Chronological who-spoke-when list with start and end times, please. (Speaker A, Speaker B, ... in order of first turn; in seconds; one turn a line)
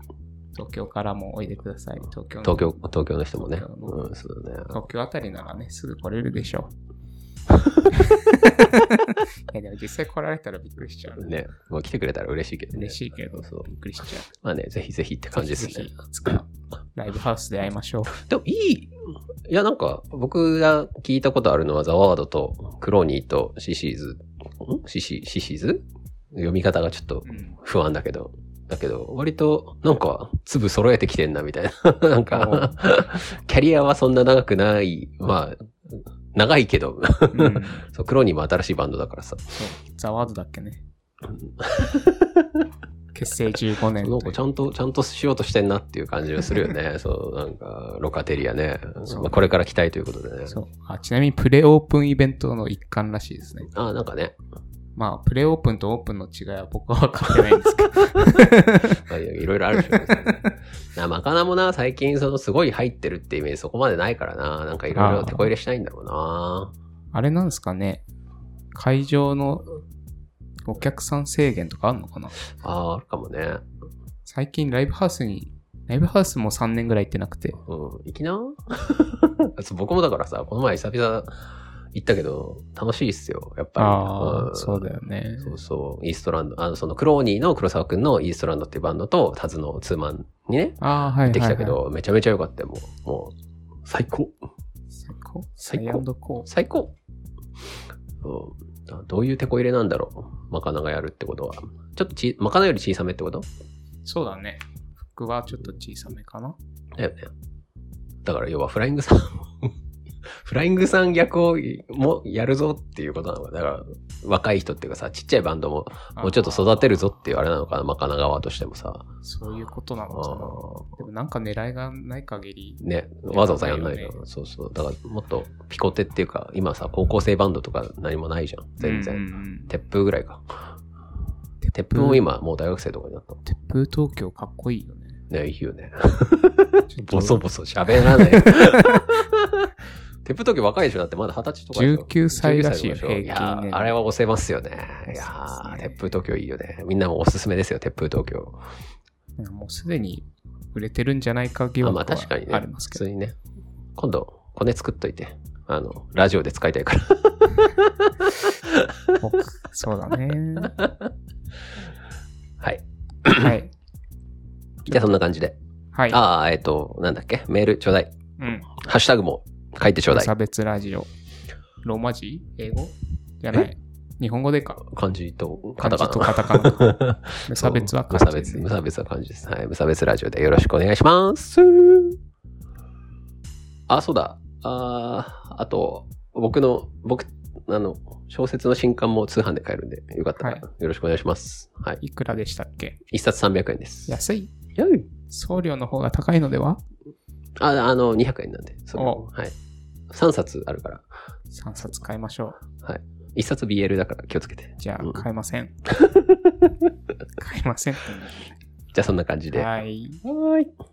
Speaker A: 0.5-2.8
Speaker B: 2.4-4.8
Speaker A: 3.4-4.1
Speaker A: 4.7-6.7
Speaker A: 7.9-11.3
Speaker B: 11.2-13.7
Speaker A: 12.7-14.3
Speaker B: 14.4-15.9
Speaker A: 15.3-18.1
Speaker B: 18.1-19.0
Speaker B: 19.5-35.7
Speaker A: 27.2-27.6
Speaker A: 32.3-32.8
Speaker B: 36.3-39.6
Speaker A: 37.3-37.9
Speaker A: 39.5-40.8
Speaker B: 41.3-42.6
Speaker A: 43.1-44.4
Speaker B: 44.0-50.6
Speaker A: 49.1-49.4
Speaker A: 50.5-53.7
Speaker B: 53.7-54.4
Speaker A: 55.0-59.0
Speaker B: 58.1-66.7
Speaker A: 59.8-60.5
Speaker A: 65.0-65.5
Speaker A: 67.1-68.0
Speaker A: 68.7-69.7
Speaker A: 70.7-72.3
Speaker B: 72.6-73.6
Speaker A: 74.3-77.6
Speaker B: 77.6-81.3
Speaker B: 81.9-84.9
Speaker A: 83.8-85.6
Speaker B: 85.4-93.3
Speaker A: 90.8-91.8
Speaker B: 93.8-94.4
Speaker A: 94.9-96.5
Speaker B: 95.7-97.0
Speaker B: 98.2-103.5
Speaker A: 104.0-106.6
Speaker B: 107.0-107.3
Speaker B: 108.2-109.7
Speaker B: 110.3-119.1
Speaker A: 116.2-117.0
Speaker A: 119.2-124.2
Speaker B: 120.1-121.0
Speaker B: 122.8-130.6
Speaker A: 128.8-129.7
Speaker A: 131.6-132.2
Speaker B: 131.7-133.4
Speaker A: 133.4-135.2
Speaker B: 135.3-148.6
Speaker A: 136.9-139.2
Speaker A: 141.8-143.9
Speaker A: 145.1-145.9
Speaker A: 149.4-153.1
Speaker B: 151.8-153.4
Speaker B: 154.0-159.1
Speaker A: 159.2-160.7
Speaker B: 160.7-160.9
Speaker B: 162.6-163.6
Speaker A: 163.3-163.7
Speaker B: 164.8-165.6
Speaker A: 165.9-166.2
Speaker B: 166.1-168.1
Speaker A: 168.4-168.7
Speaker B: 168.7-170.3
Speaker A: 170.1-171.1
Speaker A: 171.8-174.8
Speaker B: 174.8-182.2
Speaker A: 175.8-177.0
Speaker A: 177.5-178.7
Speaker B: 183.9-192.0
Speaker A: 190.4-190.7
Speaker A: 192.0-193.0
Speaker B: 193.1-194.2
Speaker A: 194.1-194.5
Speaker B: 194.8-195.1
Speaker A: 195.3-196.8
Speaker B: 197.6-199.5
Speaker A: 199.0-199.2
Speaker B: 200.1-201.1
Speaker A: 201.5-202.6
Speaker B: 202.8-205.2
Speaker A: 204.8-205.7
Speaker B: 205.9-206.9
Speaker A: 207.4-208.5
Speaker B: 208.9-209.7
Speaker A: 209.5-210.2
Speaker B: 210.2-210.7